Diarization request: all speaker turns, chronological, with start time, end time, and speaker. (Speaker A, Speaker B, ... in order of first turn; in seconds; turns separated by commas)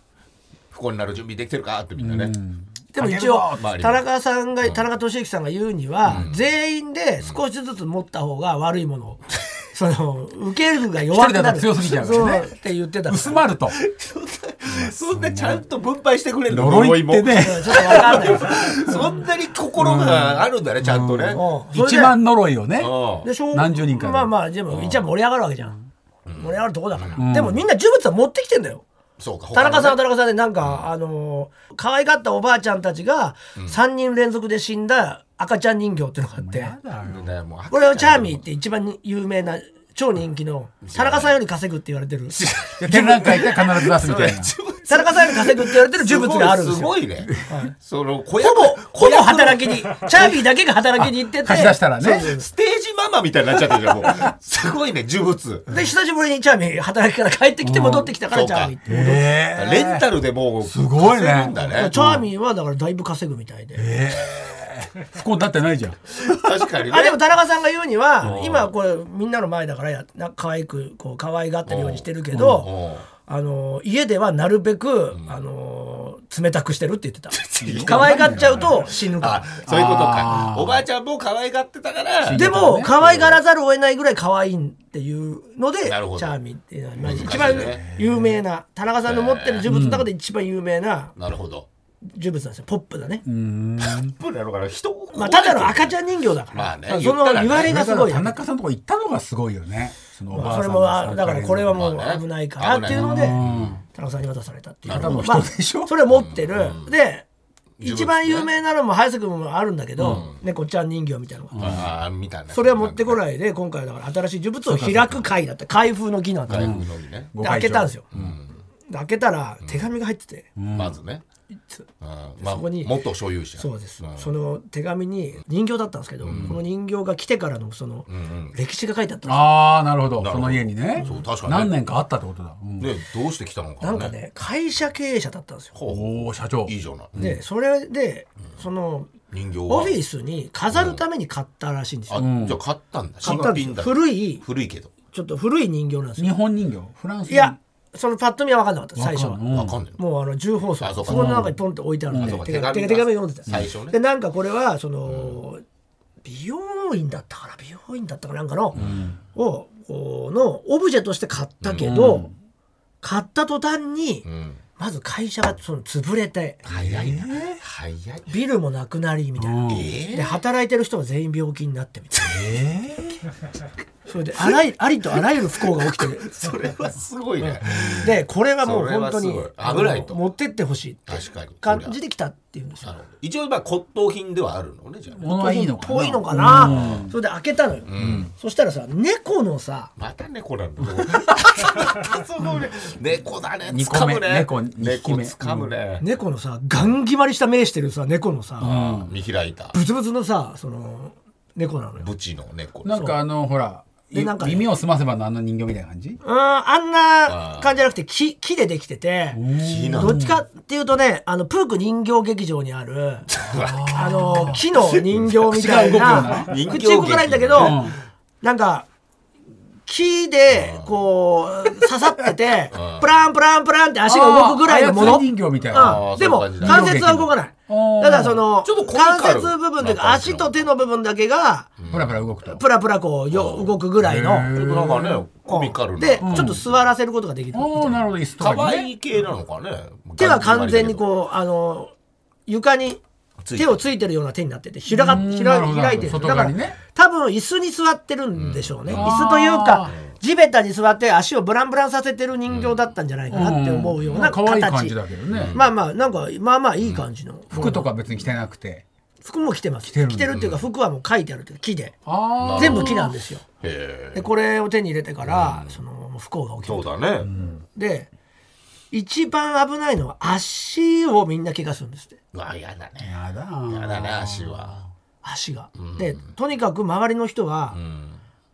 Speaker A: 0.7-2.4, Speaker B: 2.0-3.7, Speaker C: 2.9-13.4, Speaker A: 3.6-4.0, Speaker A: 6.0-6.4, Speaker B: 11.1-12.5, Speaker B: 13.1-13.8, Speaker A: 13.7-21.4, Speaker B: 15.1-15.6, Speaker B: 16.5-18.6, Speaker C: 17.4-18.9, Speaker B: 19.8-22.9, Speaker C: 21.3-22.2, Speaker A: 22.8-23.3, Speaker C: 23.2-25.8, Speaker B: 23.5-24.3, Speaker A: 24.7-25.0, Speaker A: 26.2-27.2, Speaker C: 26.4-28.8, Speaker B: 27.2-27.6, Speaker A: 29.2-30.0, Speaker C: 29.5-36.7, Speaker A: 30.6-30.9, Speaker B: 36.4-37.3, Speaker A: 37.0-38.4, Speaker C: 37.7-43.6, Speaker A: 40.8-41.4, Speaker A: 42.3-50.3, Speaker B: 42.8-44.5, Speaker C: 44.9-47.7, Speaker C: 48.4-52.4, Speaker B: 51.0-52.3, Speaker A: 52.2-55.7, Speaker C: 55.7-59.3, Speaker B: 57.6-58.1, Speaker A: 58.3-58.8, Speaker B: 58.9-60.0, Speaker A: 59.5-61.9, Speaker B: 60.6-62.2, Speaker C: 61.6-63.9, Speaker B: 63.8-66.5, Speaker A: 66.2-67.2, Speaker C: 66.9-72.7, Speaker A: 68.2-68.7, Speaker A: 71.7-73.1, Speaker B: 72.3-72.6, Speaker C: 73.2-79.5, Speaker A: 75.1-75.4, Speaker A: 77.5-83.4, Speaker B: 77.6-78.6, Speaker B: 79.6-80.8, Speaker B: 82.2-83.0, Speaker C: 82.3-91.1, Speaker A: 85.8-86.3, Speaker A: 87.0-87.8, Speaker B: 87.5-88.3, Speaker A: 89.0-89.7, Speaker B: 89.7-90.1, Speaker A: 91.2-91.7, Speaker C: 92.1-93.2, Speaker B: 93.2-94.1, Speaker A: 93.8-95.9, Speaker C: 95.1-98.4, Speaker A: 96.5-97.8, Speaker B: 97.5-101.8, Speaker C: 100.3-103.4, Speaker A: 101.7-103.8, Speaker B: 102.9-103.8, Speaker C: 103.9-107.2, Speaker B: 104.9-105.9, Speaker A: 104.9-105.2, Speaker A: 106.1-106.9, Speaker A: 107.8-108.5, Speaker C: 107.8-111.7, Speaker A: 110.0-110.4, Speaker B: 111.5-111.9, Speaker A: 111.6-113.2, Speaker C: 112.5-116.8, Speaker B: 114.7-115.2, Speaker A: 116.5-117.3, Speaker B: 116.5-118.3, Speaker C: 117.4-118.0, Speaker A: 118.1-118.6, Speaker C: 118.9-120.5, Speaker B: 120.6-121.0, Speaker A: 120.7-121.2, Speaker A: 122.0-124.3, Speaker C: 122.4-122.9, Speaker C: 123.5-129.5, Speaker A: 126.2-126.6, Speaker A: 128.1-128.5, Speaker B: 129.3-132.9, Speaker A: 130.2-131.8, Speaker A: 132.8-134.1, Speaker C: 133.8-135.7, Speaker A: 135.7-137.3, Speaker B: 135.9-137.4, Speaker C: 137.2-139.1, Speaker A: 139.3-140.0, Speaker C: 139.7-142.2, Speaker A: 140.7-141.0, Speaker A: 142.1-144.9, Speaker B: 142.2-142.6, Speaker C: 143.2-144.4, Speaker B: 143.2-143.5, Speaker C: 145.1-146.3, Speaker B: 146.2-147.6, Speaker C: 147.3-149.4, Speaker B: 149.0-149.8, Speaker A: 149.5-150.0, Speaker C: 149.9-155.6, Speaker A: 150.8-151.5, Speaker B: 151.1-151.5, Speaker B: 152.1-152.4, Speaker A: 152.2-154.0, Speaker A: 155.1-155.4, Speaker C: 156.2-158.8, Speaker A: 158.7-159.1, Speaker B: 158.8-159.2, Speaker C: 159.3-162.3, Speaker A: 161.6-161.9, Speaker B: 161.8-162.3, Speaker C: 163.0-164.2, Speaker A: 164.2-164.6, Speaker C: 164.8-166.6, Speaker A: 166.6-168.3, Speaker B: 166.7-167.6, Speaker C: 168.3-172.4, Speaker B: 169.4-169.9, Speaker A: 169.7-170.4, Speaker B: 172.2-173.2, Speaker C: 174.1-176.3, Speaker A: 175.5-180.2, Speaker C: 177.4-182.9, Speaker A: 181.1-181.9, Speaker A: 182.8-185.2, Speaker B: 185.2-187.1, Speaker C: 185.2-189.9, Speaker A: 186.6-187.1, Speaker A: 187.9-188.3, Speaker B: 188.0-188.3, Speaker A: 190.0-196.0, Speaker B: 193.7-195.7, Speaker C: 196.0-198.7, Speaker B: 198.6-199.1, Speaker A: 198.6-199.7, Speaker C: 199.7-202.1, Speaker A: 202.0-203.0, Speaker B: 202.8-206.2, Speaker C: 202.9-203.2, Speaker C: 204.1-204.7, Speaker C: 206.2-209.4, Speaker A: 207.3-207.8, Speaker B: 209.3-210.4, Speaker A: 209.6-210.2, Speaker C: 209.9-213.3, Speaker A: 213.3-215.5, Speaker B: 213.5-214.6, Speaker C: 213.9-217.8, Speaker B: 215.5-216.7, Speaker A: 216.1-217.9, Speaker B: 217.5-218.0, Speaker C: 218.4-218.9, Speaker C: 219.8-231.7, Speaker A: 220.5-220.9, Speaker A: 222.7-223.1, Speaker B: 224.1-226.1, Speaker A: 225.7-227.2, Speaker B: 226.6-228.4, Speaker A: 228.6-230.7, Speaker A: 231.8-232.2, Speaker B: 231.9-232.6, Speaker C: 232.4-234.5, Speaker A: 233.3-233.7, Speaker B: 234.0-235.2, Speaker A: 234.5-236.8, Speaker C: 235.4-238.0, Speaker B: 236.2-236.6, Speaker B: 237.5-238.9, Speaker A: 238.4-241.0, Speaker C: 240.2-241.9, Speaker C: 242.5-243.0, Speaker A: 243.4-243.8, Speaker C: 243.5-255.0, Speaker B: 244.9-246.8, Speaker A: 248.3-249.2, Speaker B: 248.9-249.9, Speaker A: 249.8-250.1, Speaker A: 252.5-252.8, Speaker B: 253.3-255.6, Speaker A: 255.3-255.7, Speaker C: 255.5-257.9, Speaker B: 257.5-258.8, Speaker C: 259.2-262.0, Speaker B: 259.9-260.4, Speaker A: 260.3-260.6, Speaker B: 262.1-263.1, Speaker A: 262.4-263.1, Speaker C: 262.5-263.4, Speaker A: 263.6-264.3, Speaker C: 264.1-267.0, Speaker A: 265.2-265.8, Speaker A: 266.6-267.3, Speaker B: 267.2-267.6, Speaker C: 267.7-268.1, Speaker C: 268.9-272.2, Speaker A: 272.3-273.1, Speaker B: 273.0-274.8, Speaker A: 273.7-274.8, Speaker C: 275.2-277.8, Speaker A: 275.8-276.3, Speaker A: 277.7-278.2